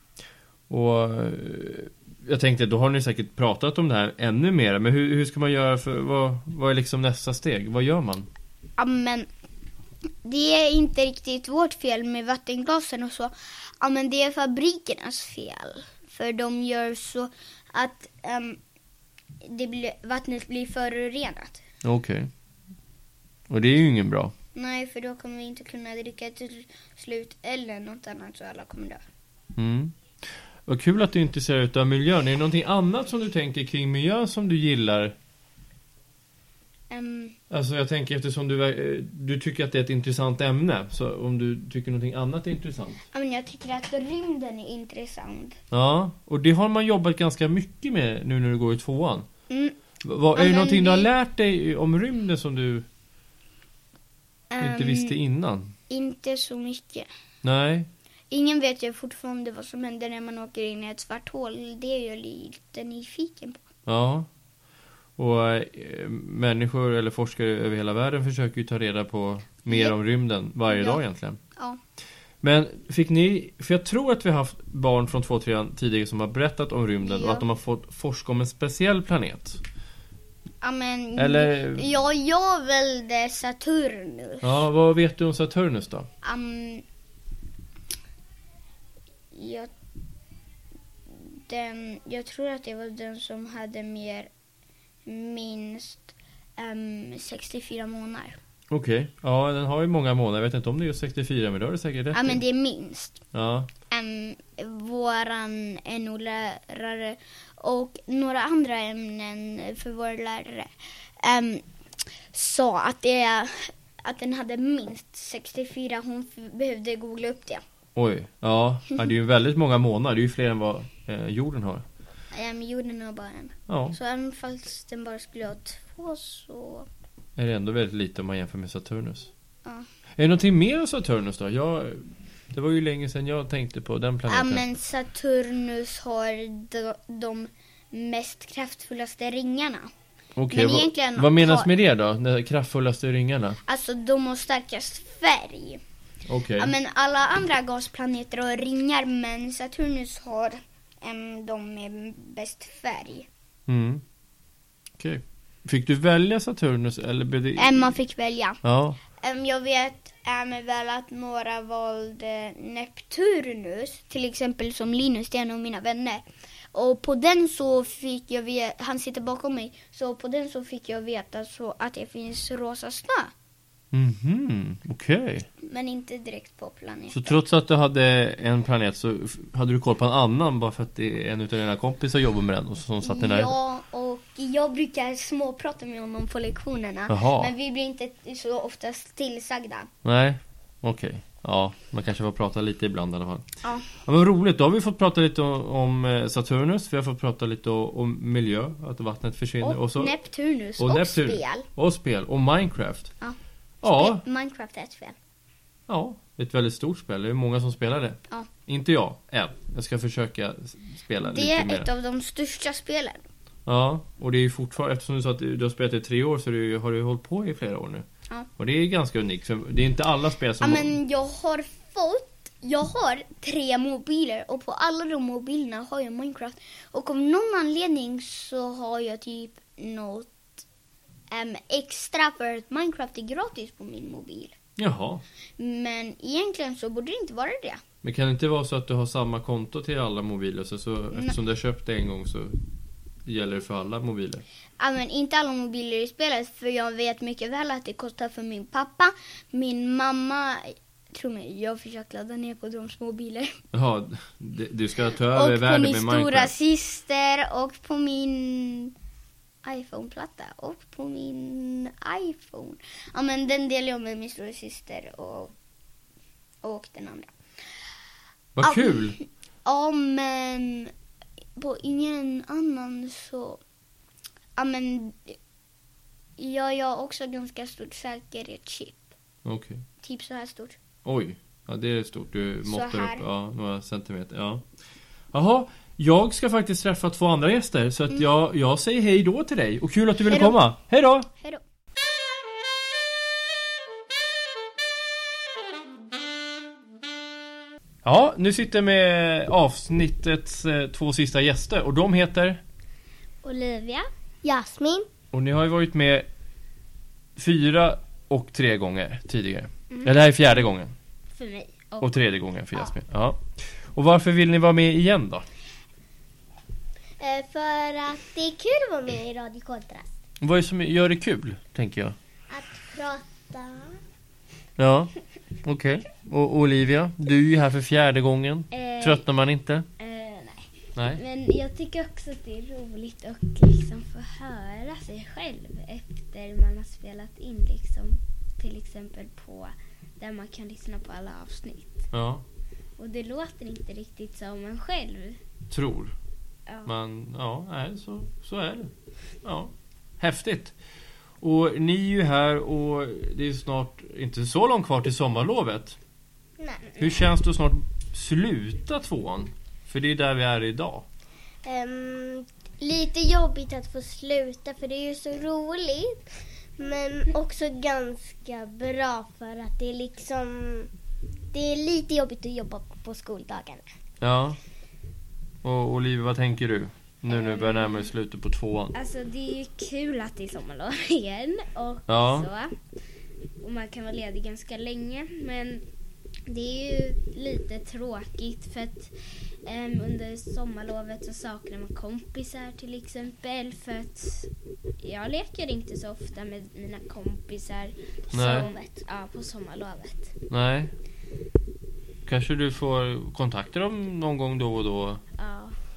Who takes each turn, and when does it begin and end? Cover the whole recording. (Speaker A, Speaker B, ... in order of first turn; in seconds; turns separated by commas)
Speaker A: 0.7-8.3, Speaker B: 8.8-9.3, Speaker B: 10.2-18.6, Speaker B: 19.4-21.6, Speaker A: 21.8-22.3, Speaker A: 23.5-24.3, Speaker B: 24.6-29.0, Speaker A: 29.6-29.9, Speaker A: 30.7-35.1, Speaker B: 36.9-37.4, Speaker A: 37.5-43.0, Speaker B: 43.1-45.6, Speaker A: 45.7-49.3, Speaker B: 49.5-49.8, Speaker A: 50.0-52.9, Speaker B: 50.3-51.1, Speaker B: 54.5-55.1, Speaker A: 54.6-55.7, Speaker B: 55.9-57.1, Speaker A: 57.4-57.9, Speaker B: 58.3-63.7, Speaker A: 63.9-64.3, Speaker A: 65.2-71.4, Speaker B: 69.7-70.0, Speaker B: 70.7-71.0, Speaker A: 72.4-79.6, Speaker B: 77.0-77.4, Speaker B: 80.6-84.6, Speaker A: 81.2-81.9, Speaker A: 84.4-86.1, Speaker B: 86.2-86.8, Speaker B: 89.3-89.7, Speaker B: 91.1-94.3, Speaker B: 95.1-98.4, Speaker A: 98.7-102.4, Speaker B: 102.1-103.2, Speaker A: 103.3-103.7, Speaker B: 103.9-110.7, Speaker B: 111.2-111.6, Speaker B: 112.3-117.6, Speaker A: 118.0-121.8, Speaker B: 122.3-126.9, Speaker A: 123.7-124.0, Speaker A: 127.4-129.3, Speaker A: 130.2-134.6, Speaker B: 134.3-139.9, Speaker A: 140.4-143.6, Speaker B: 140.5-141.7, Speaker B: 143.7-145.8, Speaker A: 146.3-146.7, Speaker B: 146.6-153.3, Speaker A: 153.7-154.0, Speaker A: 155.0-157.9, Speaker B: 157.6-158.6, Speaker A: 158.6-159.0, Speaker B: 159.2-173.3, Speaker A: 173.9-175.5, Speaker B: 175.6-177.3, Speaker A: 177.1-183.5, Speaker B: 183.0-189.9, Speaker A: 187.1-187.5, Speaker A: 190.0-193.5, Speaker A: 194.0-200.1, Speaker B: 199.6-201.7, Speaker A: 200.8-203.1, Speaker B: 203.2-205.2, Speaker A: 203.8-204.2, Speaker A: 205.9-211.9, Speaker B: 211.2-213.2, Speaker A: 213.7-218.1, Speaker A: 218.6-220.9, Speaker B: 220.6-230.6, Speaker B: 231.3-234.6, Speaker A: 234.8-235.2, Speaker B: 235.6-237.8, Speaker A: 238.0-242.6, Speaker A: 243.3-244.4, Speaker B: 244.8-253.6, Speaker A: 253.7-256.5, Speaker B: 255.2-258.9, Speaker B: 259.6-265.5, Speaker B: 266.6-267.3, Speaker A: 268.6-269.2, Speaker B: 268.6-270.9, Speaker B: 271.6-273.6, Speaker B: 274.6-275.4, Speaker B: 276.4-279.1, Speaker A: 279.4-279.8, Speaker B: 280.0-280.8, Speaker A: 281.1-284.6, Speaker B: 282.7-283.2, Speaker A: 285.3-291.3, Speaker B: 290.3-290.6, Speaker A: 298.0-302.6, Speaker C: 303.4-304.1, Speaker D: 304.4-305.1, Speaker A: 305.3-306.3, Speaker A: 307.4-310.9, Speaker C: 311.4-312.1, Speaker A: 312.0-315.5, Speaker D: 317.2-320.1, Speaker A: 320.4-322.2, Speaker D: 322.5-323.9, Speaker A: 324.8-325.1, Speaker A: 325.6-329.9, Speaker C: 328.7-329.2, Speaker C: 330.0-342.0, Speaker A: 331.0-331.2, Speaker A: 342.1-342.4, Speaker C: 343.0-345.4, Speaker A: 345.7-346.1, Speaker A: 346.9-348.9, Speaker A: 349.4-350.8, Speaker A: 351.4-356.0, Speaker A: 357.0-361.1, Speaker D: 361.6-366.1, Speaker D: 366.8-370.9, Speaker D: 371.5-373.8, Speaker A: 374.2-374.6, Speaker A: 375.6-378.9, Speaker C: 377.4-378.0, Speaker C: 378.9-382.8, Speaker A: 382.1-382.5, Speaker C: 383.6-385.8, Speaker C: 386.5-389.1, Speaker C: 389.7-394.5, Speaker C: 395.0-400.3, Speaker A: 398.3-398.7, Speaker D: 398.6-398.8, Speaker A: 400.5-400.9, Speaker A: 402.3-405.2, Speaker C: 405.4-405.8